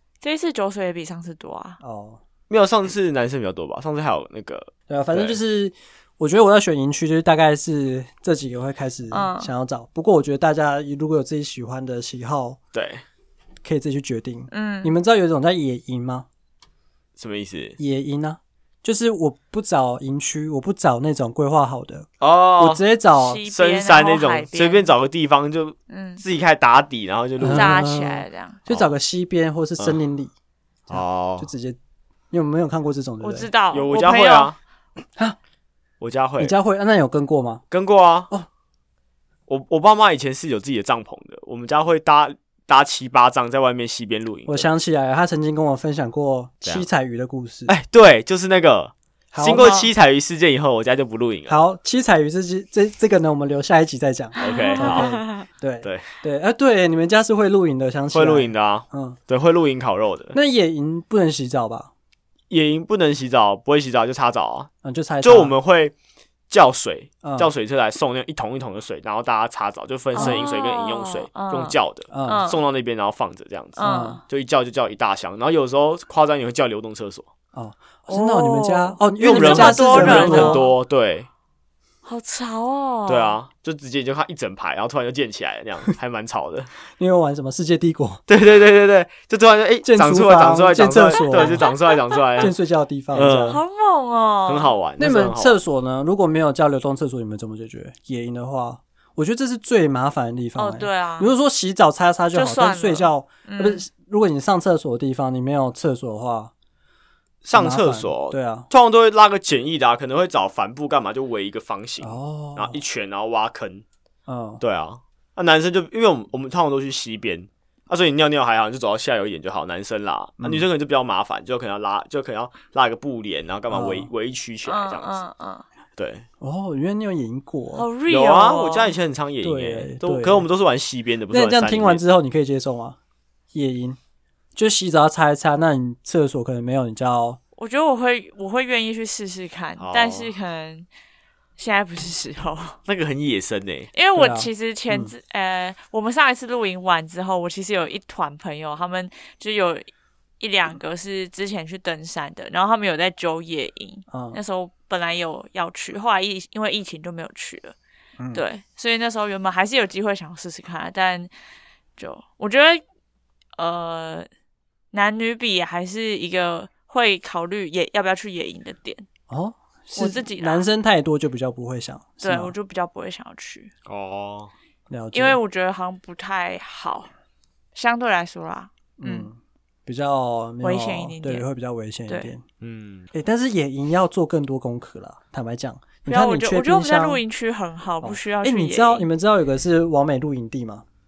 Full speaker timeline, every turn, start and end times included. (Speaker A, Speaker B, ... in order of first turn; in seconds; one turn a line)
Speaker A: 0.2-1.8
Speaker B: 1.8-2.2
Speaker C: 2.5-5.4
Speaker B: 4.9-12.6
Speaker A: 9.1-9.5
Speaker C: 12.7-13.0
Speaker B: 13.6-16.3
Speaker A: 14.5-14.9
Speaker C: 17.2-17.8
Speaker B: 17.8-22.1
Speaker C: 22.2-22.8
Speaker B: 22.6-23.4
Speaker A: 23.2-24.9
Speaker C: 23.5-27.8
Speaker A: 25.9-26.2
Speaker B: 27.4-30.3
Speaker A: 27.5-28.6
Speaker C: 28.7-28.9
Speaker B: 30.9-31.8
Speaker C: 30.9-31.5
Speaker B: 32.3-33.5
Speaker A: 33.2-34.5
Speaker C: 33.7-34.6
Speaker C: 36.0-36.5
Speaker B: 36.4-37.6
Speaker C: 37.7-38.3
Speaker C: 39.5-44.7
Speaker B: 44.5-47.7
Speaker C: 47.7-51.6
Speaker B: 49.3-49.8
Speaker A: 49.5-49.9
Speaker B: 51.5-59.2
Speaker A: 54.4-55.5
Speaker C: 54.4-55.2
Speaker C: 55.8-56.1
Speaker C: 58.1-60.4
Speaker B: 60.3-61.9
Speaker C: 62.5-64.7
Speaker B: 64.8-65.5
Speaker C: 65.2-65.9
Speaker C: 66.5-77.3
Speaker B: 67.2-67.5
Speaker A: 70.1-72.6
Speaker B: 70.2-70.5
Speaker B: 72.1-72.5
Speaker A: 73.8-74.2
Speaker B: 73.8-74.2
Speaker B: 77.5-80.6
Speaker A: 78.1-80.7
Speaker C: 79.2-81.3
Speaker A: 82.0-83.4
Speaker C: 83.1-86.7
Speaker B: 86.9-88.2
Speaker C: 88.3-92.5
Speaker B: 89.8-91.7
Speaker A: 91.2-92.2
Speaker B: 92.4-93.6
Speaker C: 93.1-93.6
Speaker A: 93.5-94.7
Speaker C: 94.5-95.6
Speaker B: 95.0-106.5
Speaker A: 100.5-101.3
Speaker A: 102.3-103.8
Speaker C: 107.4-113.8
Speaker B: 107.5-108.7
Speaker B: 112.0-112.8
Speaker B: 114.3-114.6
Speaker C: 114.6-125.2
Speaker B: 120.4-120.7
Speaker B: 123.7-124.1
Speaker A: 124.6-125.6
Speaker C: 126.0-126.2
Speaker B: 126.4-127.9
Speaker A: 127.7-128.9
Speaker C: 128.1-132.0
Speaker B: 129.4-130.5
Speaker B: 131.3-133.0
Speaker B: 133.5-134.0
Speaker B: 134.6-137.4
Speaker A: 137.6-140.9
Speaker C: 139.8-140.3
Speaker A: 141.6-142.8
Speaker C: 142.9-143.9
Speaker A: 143.9-149.9
Speaker B: 144.2-145.1
Speaker A: 150.4-157.7
Speaker B: 154.1-154.4
Speaker B: 158.2-158.4
Speaker A: 158.3-161.3
Speaker A: 162.0-162.8
Speaker A: 163.6-164.3
Speaker A: 164.9-169.1
Speaker B: 169.3-172.5
Speaker A: 169.9-170.7
Speaker A: 172.2-173.7
Speaker C: 173.9-174.5
Speaker B: 174.9-175.4
Speaker A: 175.1-177.1
Speaker A: 177.7-179.3
Speaker B: 179.0-182.4
Speaker A: 180.6-181.4
Speaker C: 182.6-183.1
Speaker B: 183.1-187.2
Speaker A: 186.1-189.1
Speaker B: 188.0-190.8